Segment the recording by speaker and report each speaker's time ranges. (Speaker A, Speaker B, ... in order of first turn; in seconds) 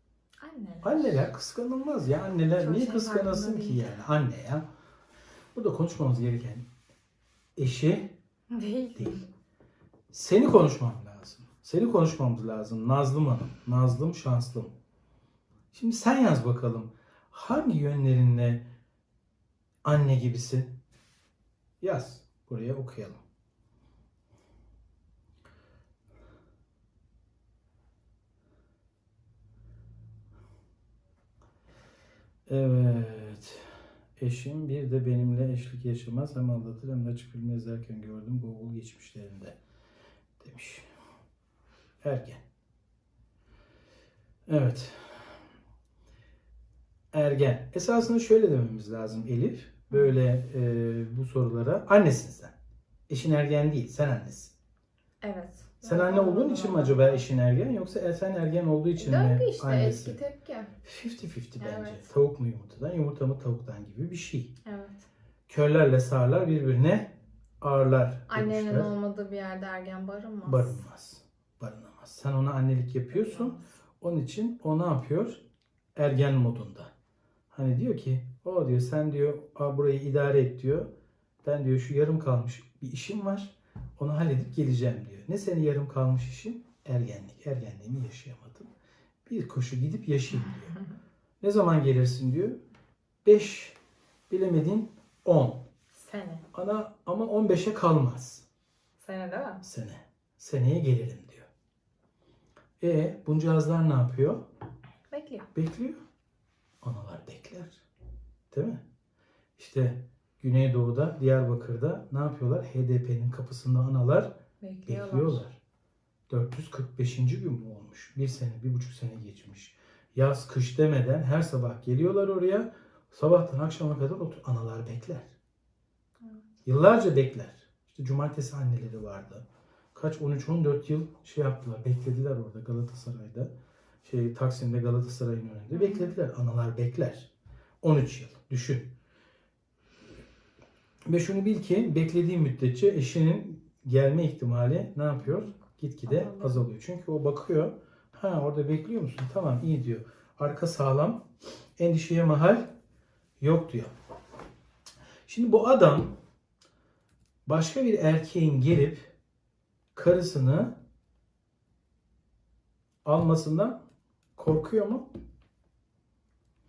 Speaker A: 0.4-1.3, 2.6-3.9, 8.5-9.2, 55.2-57.2, 59.0-60.7, 61.6-62.1, 64.7-65.0, 68.3-70.8, 73.1-73.6, 95.9-96.5, 99.0-99.6, 105.1-105.5, 114.6-115.4, 135.7-136.2, 145.2-146.7
Speaker B: 0.8-4.7, 5.5-6.7, 7.6-8.1, 9.0-9.2, 10.1-14.7, 15.7-18.7, 19.8-20.8, 21.8-23.2, 32.5-39.6, 40.4-40.9, 42.0-42.4, 44.5-45.2, 47.1-52.5, 53.1-54.5, 55.8-60.2, 60.8-64.5, 65.5-68.9, 70.4-75.4, 76.0-76.9, 77.5-80.9, 81.4-88.7, 89.3-90.8, 91.4-92.6, 93.2-93.8, 94.3-95.7, 96.5-98.5, 99.6-101.5, 102.8-104.5, 105.5-106.0, 106.8-107.8, 108.5-108.8, 109.6-114.3, 114.9-115.6, 116.3-125.3, 126.7-133.5, 134.0-137.3, 137.8-138.9, 141.1-151.3, 151.8-152.7, 153.4-153.9, 155.3-156.2, 157.5-159.1, 159.9-160.8, 163.1-163.8, 164.4-165.1